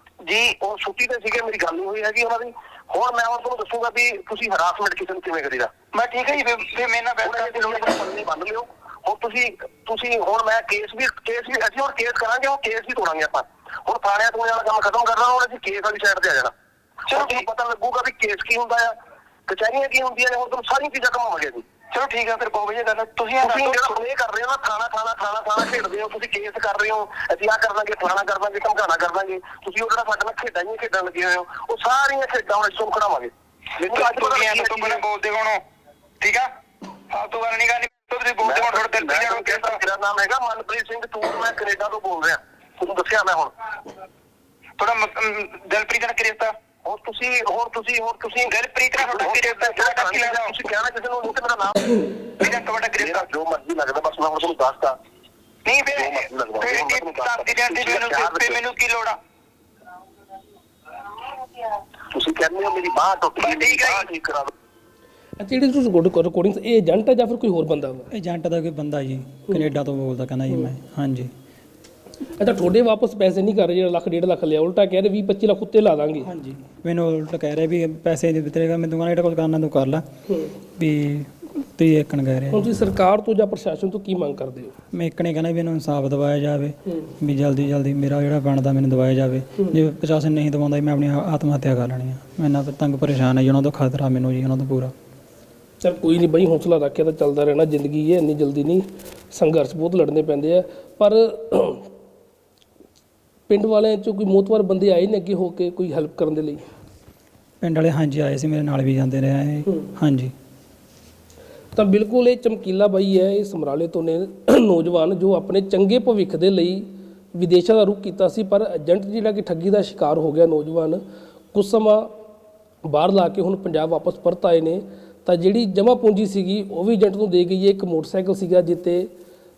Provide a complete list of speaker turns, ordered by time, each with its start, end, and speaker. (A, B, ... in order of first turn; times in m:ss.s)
0:00.2-0:00.6 A
0:00.6-0:05.7 B
0:05.9-0:07.9 A
0:07.2-0:16.5 B
0:17.1-0:17.4 A
0:17.1-0:18.9 B
0:19.5-0:21.6 B
0:21.9-0:23.9 A
0:23.4-0:35.0 B
0:33.8-0:35.6 A
0:36.2-0:36.5 A
0:37.1-0:39.8 A
0:38.4-0:43.5 B
0:44.8-0:46.6 A
0:46.8-0:52.0 B
0:48.4-0:50.6 A
0:52.4-0:53.3 A
0:53.0-0:55.0 B
0:55.6-0:59.2 A
0:55.9-0:58.6 B
1:02.1-1:04.5 B
1:03.4-1:04.1 A
1:05.4-1:08.1 C
1:08.1-1:11.3 D
1:10.5-1:10.7 C
1:12.4-1:16.3 C
1:16.2-1:20.0 D
1:20.3-1:20.6 C
1:20.8-1:22.7 D
1:22.5-1:24.7 C
1:24.9-1:34.9 D
1:26.9-1:27.1 C
1:35.8-1:41.9 C
1:43.5-1:46.6 C
1:47.6-1:50.3 D
1:51.7-2:01.0 C
2:01.5-2:02.1 C
2:02.8-2:09.1 C